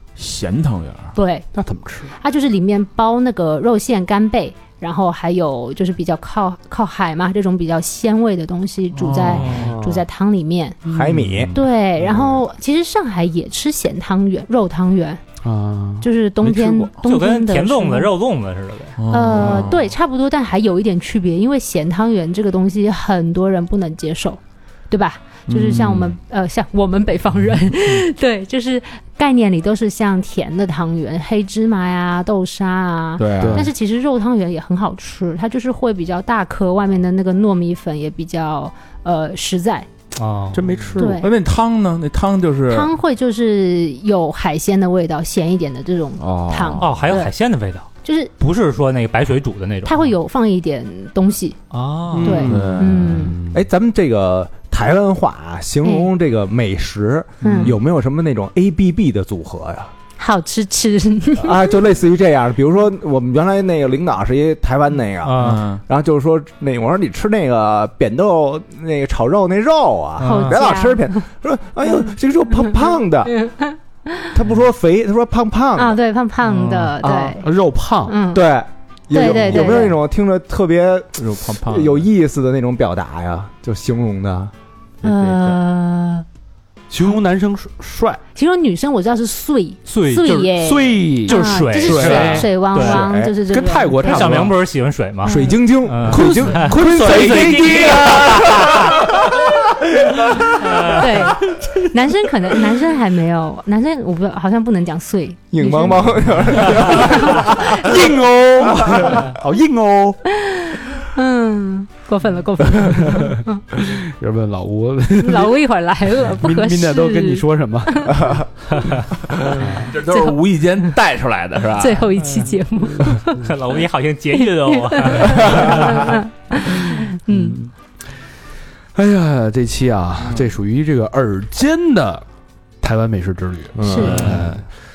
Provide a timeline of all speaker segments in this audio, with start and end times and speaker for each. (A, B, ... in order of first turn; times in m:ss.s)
0:00.2-0:01.1 A
0:01.1-0:01.5 B
0:01.5-0:02.1 C
0:02.2-0:10.8 B
0:08.9-0:09.6 A
0:09.3-0:09.7 D
0:09.4-0:10.0 E
0:10.9-0:11.5 E
0:10.9-0:11.4 C
0:11.1-0:11.6 A
0:11.5-0:15.2 B
0:15.4-0:16.1 C
0:16.0-0:18.1 B
0:16.4-0:16.9 A
0:17.0-0:19.0 D
0:19.0-0:19.8 A
0:19.1-0:39.9 B
0:25.5-0:26.2 A
0:33.2-0:33.7 A
0:33.4-0:33.7 C
0:40.2-0:40.6 D
0:40.5-0:41.2 C
0:41.0-0:41.3 B
0:41.1-0:42.9 A
0:42.7-0:47.3 B
0:46.2-0:46.9 A
0:46.8-0:47.9 D
0:48.0-0:48.3 B
0:48.4-0:50.1 D
0:49.8-0:51.6 B
0:51.7-0:52.5 D
0:52.2-0:52.9 A
0:52.2-0:52.6 E
0:52.2-0:53.6 C
0:52.2-0:53.4 B
0:53.4-0:59.9 E
0:55.8-0:56.1 B
0:57.4-0:57.7 B
1:00.2-1:01.7 B
1:01.4-1:13.4 E
1:05.2-1:05.7 D
1:05.4-1:05.8 A
1:10.2-1:10.6 D
1:10.2-1:11.2 B
1:13.3-1:14.3 B
1:14.3-1:16.0 E
1:15.8-1:17.5 B
1:16.6-1:16.9 D
1:17.1-1:18.1 C
1:18.0-1:18.4 B
1:18.3-1:24.5 E
1:19.1-1:19.9 B
1:21.2-1:22.1 A
1:25.0-1:26.2 B
1:25.0-1:25.6 A
1:26.9-1:28.2 C
1:28.3-1:34.4 B
1:29.9-1:30.5 D
1:30.6-1:32.9 C
1:31.2-1:33.1 D
1:32.8-1:33.3 E
1:33.4-1:34.5 C
1:34.0-1:39.0 D
1:35.2-1:35.6 B
1:35.3-1:39.0 E
1:36.1-1:39.2 C
1:36.9-1:39.0 A
1:40.6-1:41.0 D
1:40.9-1:47.8 B
1:45.5-1:48.1 E
1:47.0-1:50.2 C
1:50.3-1:53.6 B
1:52.9-1:55.6 C
1:55.2-1:58.2 B
1:56.2-1:58.5 C
1:59.4-1:59.9 C
1:59.5-2:02.1 A
2:00.0-2:00.3 B
2:01.8-2:03.4 B
2:03.2-2:06.2 D
2:04.3-2:07.6 B
2:08.9-2:12.2 C
2:12.8-2:14.6 C
2:13.8-2:14.4 E
2:13.8-2:14.3 B
2:14.1-2:14.6 A